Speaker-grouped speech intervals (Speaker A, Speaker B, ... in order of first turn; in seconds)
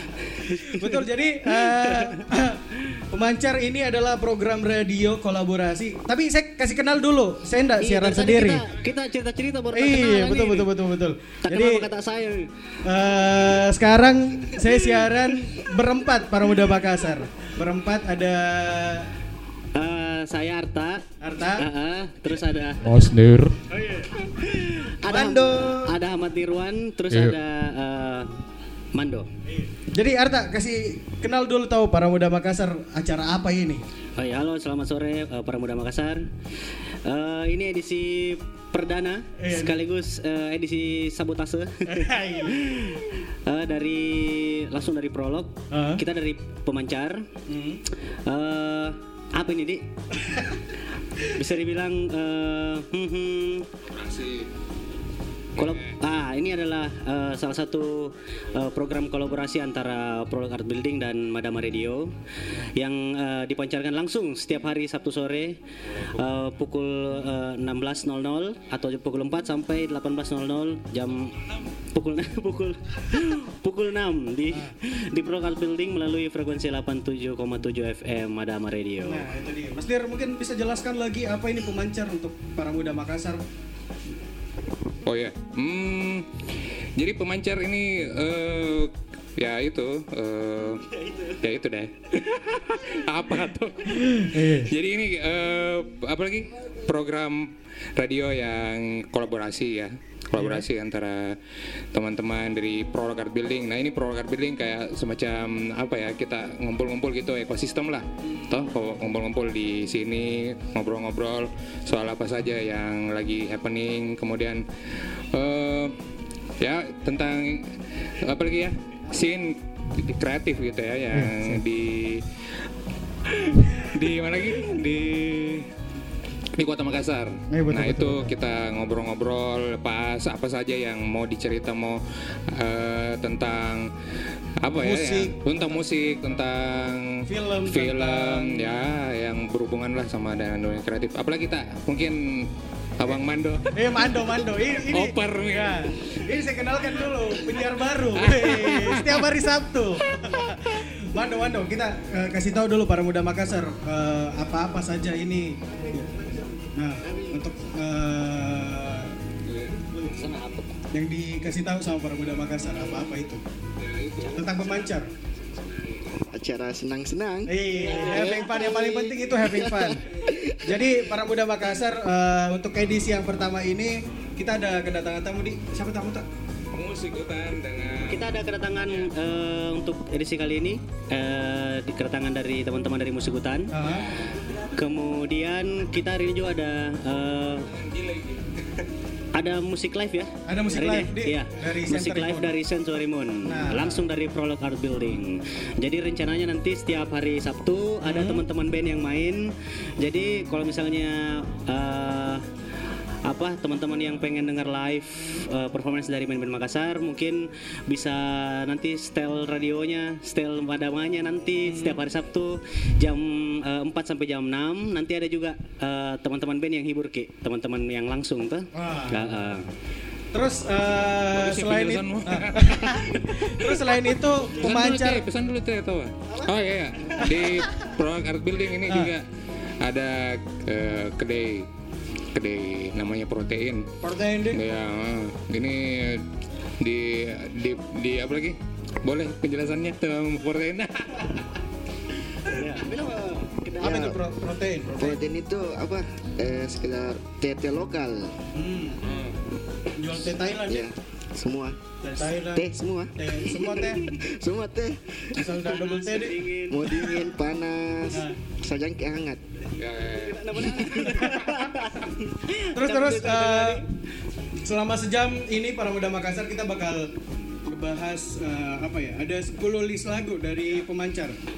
Speaker A: 0.4-2.1, 7.8-10.7, 11.4-12.5, 19.7-21.0, 21.6-22.9, 25.0-28.3, 28.9-29.3, 34.2-36.2, 37.0-42.8, 43.5-47.2, 48.3-49.8, 51.4-53.6, 55.6-62.1, 62.8-65.6, 66.1-71.4, 71.9-79.2, 159.9-160.8, 178.0-183.7, 184.7-187.7, 189.3-199.5, 200.0-202.4, 203.3-219.6, 242.5-244.1, 255.7-256.9, 260.5-261.9, 262.5-263.8
Speaker B: 0.7-2.6, 3.1-8.6, 9.7-11.8, 12.8-19.1, 21.2-21.6, 23.7-24.1, 25.1-25.8, 29.5-33.8, 39.4-39.8, 41.9-42.8, 45.7-46.0, 47.5-47.8, 79.0-83.4, 94.3-94.7, 100.3-100.7, 121.1-121.6, 127.5-128.3, 134.8-135.8, 137.3-138.8, 143.7-159.1, 160.9-163.4, 164.3-165.1, 167.5-170.0, 170.6-176.2, 183.7-184.1, 190.5-192.5, 193.4-194.0, 198.0-198.4, 211.7-211.9, 218.7-219.4, 220.3-225.2, 228.9-229.1, 234.0-234.6, 243.8-245.2, 248.5-249.0, 250.0-250.9, 252.0-254.0, 255.3-256.3, 261.0-261.6, 262.7-263.8, 264.6-267.1, 267.7-271.4
Speaker C: 54.0-54.3, 85.1-85.6, 87.0-87.4, 88.2-88.6, 89.4-90.8, 91.4-91.9, 93.1-96.0, 99.0-100.9, 102.6-104.2, 104.8-110.0, 110.6-110.8, 111.9-114.1, 116.6-117.0, 118.3-119.4, 120.0-121.9, 123.9-125.6, 126.6-131.0, 134.6-136.4, 137.7-138.8, 140.5-141.8, 143.0-145.8, 148.2-149.2, 159.5-159.7, 163.8-164.5, 176.8-178.2, 187.9-188.4, 221.3-229.2, 230.7-231.4, 232.3-233.8, 234.5-234.8, 239.1-240.9, 259.8-260.4
Speaker D: 166.3-170.6, 243.8-244.2, 244.9-248.3, 250.7-251.7, 252.3-255.4, 256.7-259.4, 260.5-261.0